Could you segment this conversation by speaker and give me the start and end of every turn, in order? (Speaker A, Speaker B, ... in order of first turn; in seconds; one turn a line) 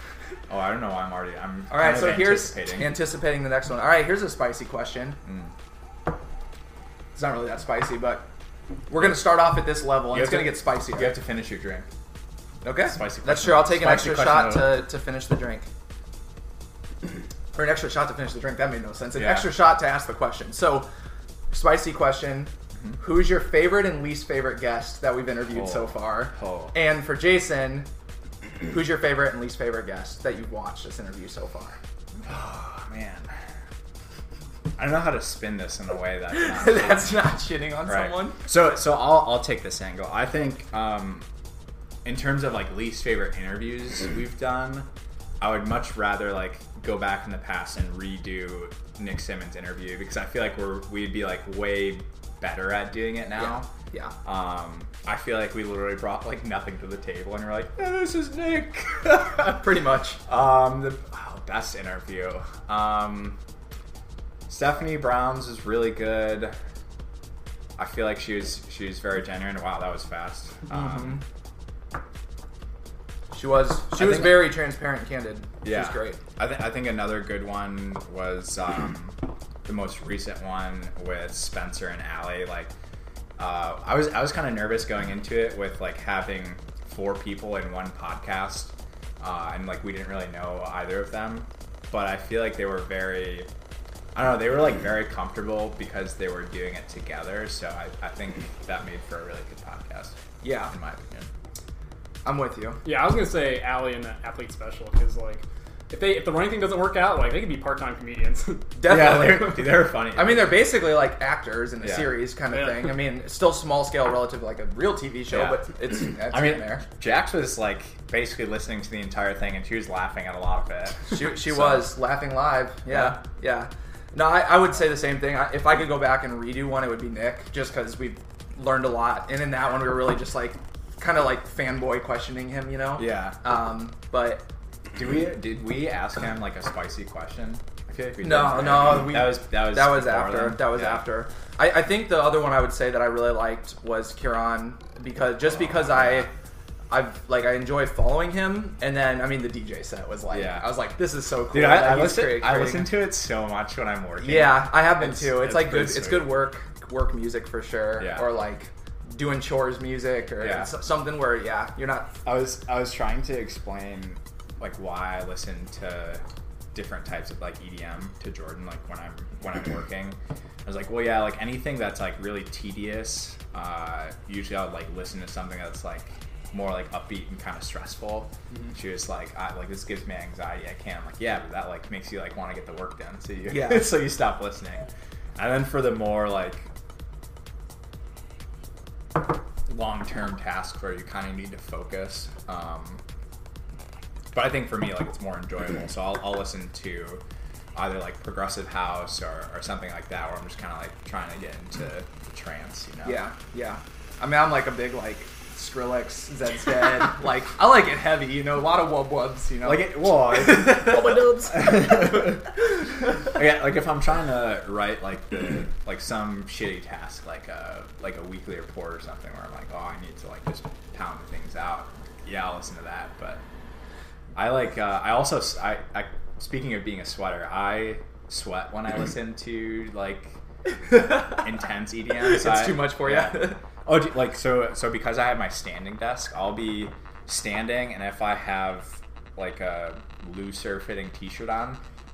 Speaker A: 0.5-3.0
Speaker B: 1.7-5.2
Speaker A: 5.3-5.5
Speaker B: 7.2-8.3
Speaker B: 8.9-11.1
Speaker A: 10.1-11.9
Speaker B: 12.6-15.7
Speaker A: 12.9-14.8
Speaker B: 17.5-20.9
Speaker A: 19.2-19.6
Speaker B: 21.5-27.9
Speaker A: 25.5-26.7
Speaker B: 28.7-31.8
Speaker A: 32.2-33.3
Speaker A: 34.8-37.2
Speaker B: 36.3-38.4
Speaker A: 37.9-41.3
Speaker A: 42.0-44.9
Speaker A: 45.4-53.7
Speaker B: 53.4-54.1
Speaker A: 54.2-59.6
Speaker B: 59.4-60.2
Speaker A: 60.3-63.4
Speaker A: 64.5-66.5
Speaker A: 67.8-71.2
Speaker B: 70.7-71.2
Speaker B: 73.3-76.2
Speaker A: 73.9-74.6
Speaker A: 75.6-82.7
Speaker A: 83.4-93.5
Speaker A: 94.2-101.3
Speaker B: 100.4-100.7
Speaker B: 102.2-102.8
Speaker C: 102.8-108.7
Speaker B: 108.8-116.8
Speaker A: 108.8-110.7
Speaker A: 111.8-112.2
Speaker C: 112.5-112.9
Speaker A: 115.3-115.6
Speaker A: 116.2-122.0
Speaker B: 121.1-134.4
Speaker A: 122.9-123.2
Speaker A: 133.0-133.4
Speaker A: 134.9-141.1
Speaker B: 138.2-146.3
Speaker A: 145.5-146.3
Speaker B: 146.9-152.9
Speaker A: 150.3-150.7
Speaker A: 151.5-156.4
Speaker B: 154.2-162.1
Speaker A: 158.0-158.3
Speaker A: 160.4-160.7
Speaker A: 162.2-166.2
Speaker A: 166.7-186.7
Speaker B: 183.5-184.0
Speaker A: 189.7-193.0
Speaker A: 194.3-197.2
Speaker A: 197.8-203.2
Speaker B: 203.0-211.2
Speaker A: 209.6-223.4
Speaker C: 210.7-212.0
Speaker A: 224.3-230.4
Speaker B: 230.9-231.5
Speaker A: 230.9-241.8
Speaker B: 232.1-233.6